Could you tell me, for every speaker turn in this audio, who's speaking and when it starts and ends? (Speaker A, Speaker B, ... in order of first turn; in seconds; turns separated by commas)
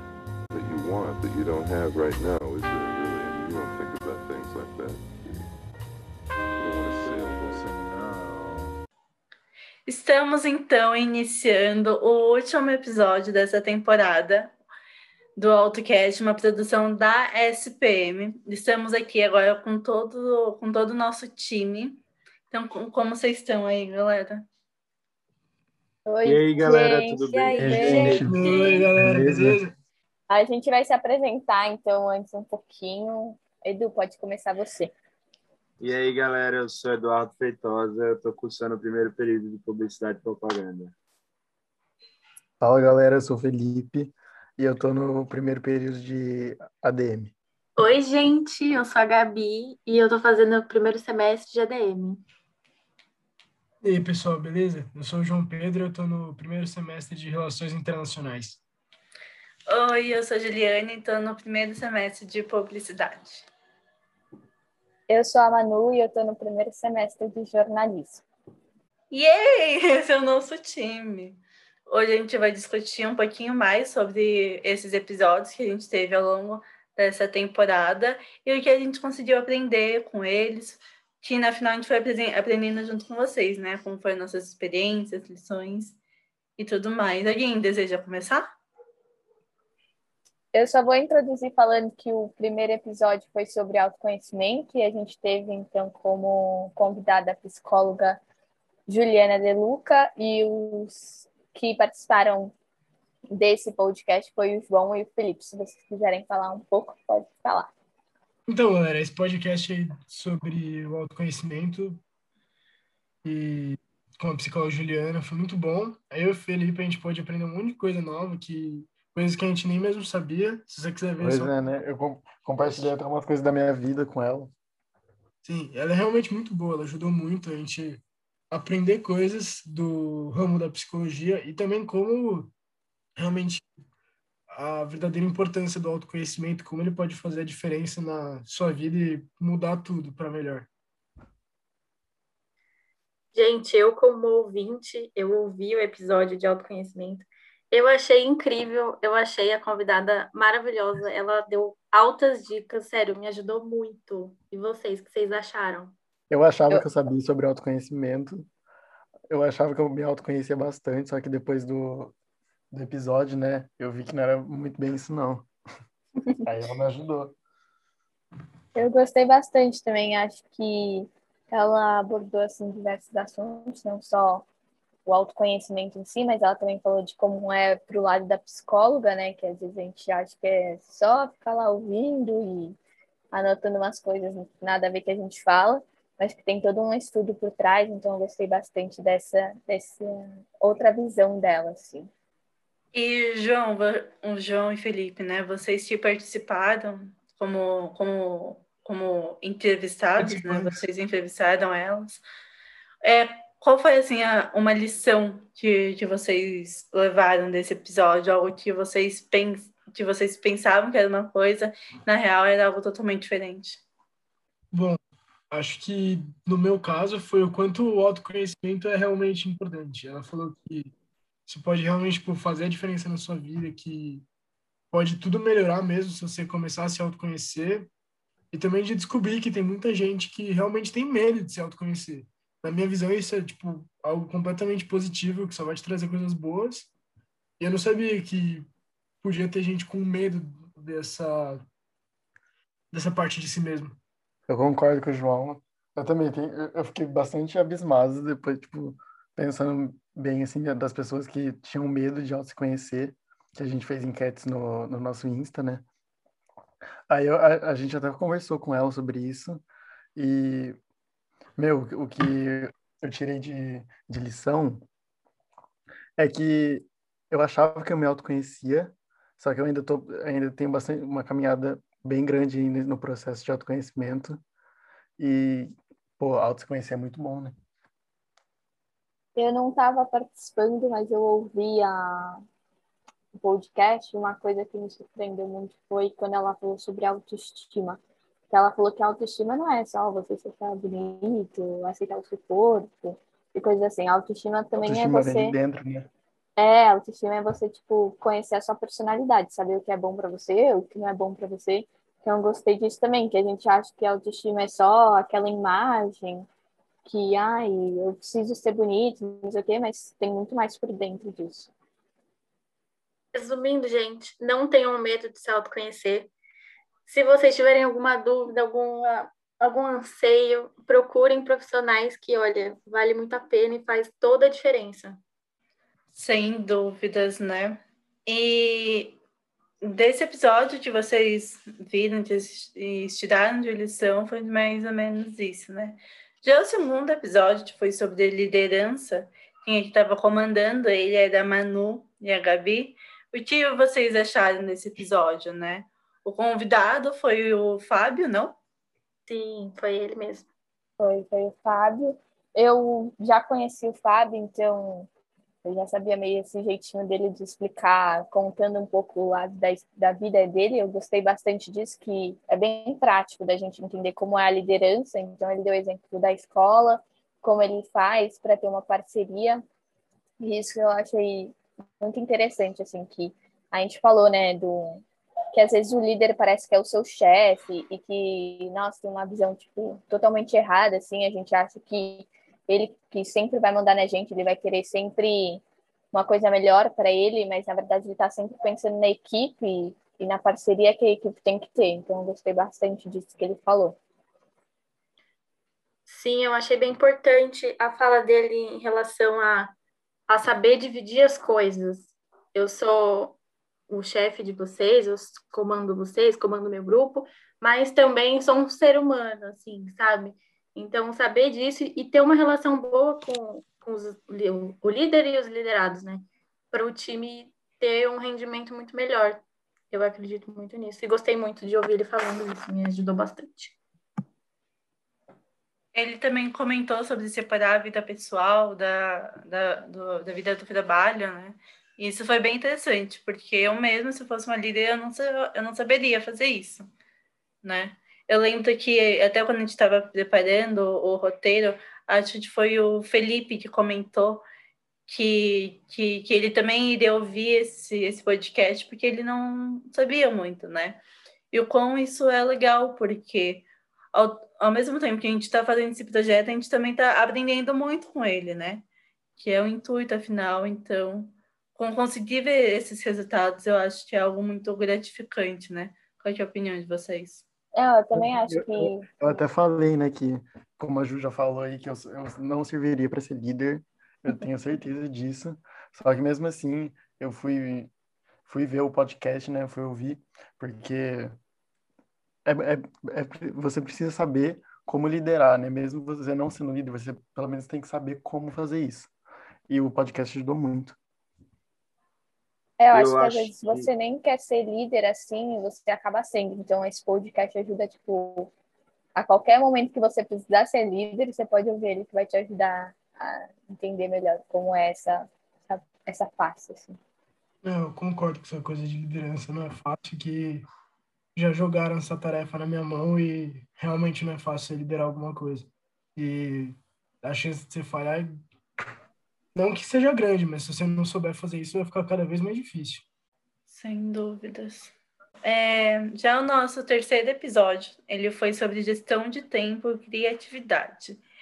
Speaker A: 0.5-5.5, Speaker A: 6.6-8.7, Speaker B: 9.9-14.5, Speaker B: 15.4-24.4, Speaker C: 26.1-28.2, Speaker D: 26.2-28.5, Speaker E: 27.3-28.9, Speaker F: 27.6-28.4, Speaker G: 28.2-29.7, Speaker F: 28.9-29.6, Speaker C: 30.3-34.9, Speaker D: 35.8-40.9, Speaker F: 42.6-47.3, Speaker E: 47.8-52.2, Speaker G: 53.8-58.6, Speaker B: 59.7-63.5, Speaker C: 65.1-68.2, Speaker B: 69.1-86.0, Speaker B: 86.6-88.5, Speaker C: 90.5-98.2, Speaker C: 98.9-102.5, Speaker C: 103.3-107.7, Speaker G: 108.5-112.0, Speaker G: 113.2-121.5, Speaker F: 121.2-124.5, Speaker G: 125.4-132.5, Speaker G: 133.2-133.7, Speaker G: 134.5-140.7, Speaker E: 143.3-155.9, Speaker F: 156.3-158.5, Speaker F: 159.3-162.1, Speaker F: 162.7-165.5, Speaker F: 166.4-167.3, Speaker C: 168.7-174.4, Speaker C: 175.1-182.8, Speaker C: 183.3-192.1, Speaker B: 192.9-202.2, Speaker G: 200.2-200.7, Speaker B: 203.0-213.8, Speaker G: 214.7-215.0, Speaker G: 215.5-220.9, Speaker G: 221.5-224.2, Speaker G: 224.9-227.9, Speaker G: 228.5-236.9, Speaker G: 237.6-238.7, Speaker G: 239.2-241.6, Speaker G: 242.9-244.0, Speaker F: 244.5-255.8, Speaker F: 257.1-259.6, Speaker F: 260.1-260.8, Speaker F: 261.6-264.9, Speaker F: 266.2-274.4, Speaker F: 275.2-277.6, Speaker C: 279.4-282.4, Speaker C: 283.3-295.6, Speaker F: 294.8-296.1, Speaker C: 296.6-306.5, Speaker C: 307.0-311.7, Speaker E: 313.3-316.3, Speaker E: 317.1-325.2, Speaker B: 326.1-329.2, Speaker B: 329.8-348.6, Speaker E: 349.3-350.5, Speaker C: 351.0-355.1, Speaker C: 355.6-369.6, Speaker C: 370.4-394.0, Speaker E: 396.1-399.7, Speaker E: 400.3-403.4, Speaker E: 403.9-423.8, Speaker B: 425.9-436.9, Speaker B: 437.6-444.4, Speaker B: 445.1-458.8, Speaker B: 459.4-467.4, Speaker C: 467.7-469.1, Speaker F: 468.1-477.9, Speaker F: 478.4-481.4, Speaker F: 482.4-489.1, Speaker F: 489.7-491.0, Speaker C: 492.8-498.5, Speaker D: 492.9-493.9, Speaker C: 499.1-507.0, Speaker G: 507.6-510.7, Speaker G: 511.4-518.3, Speaker G: 519.5-523.0, Speaker B: 523.7-531.2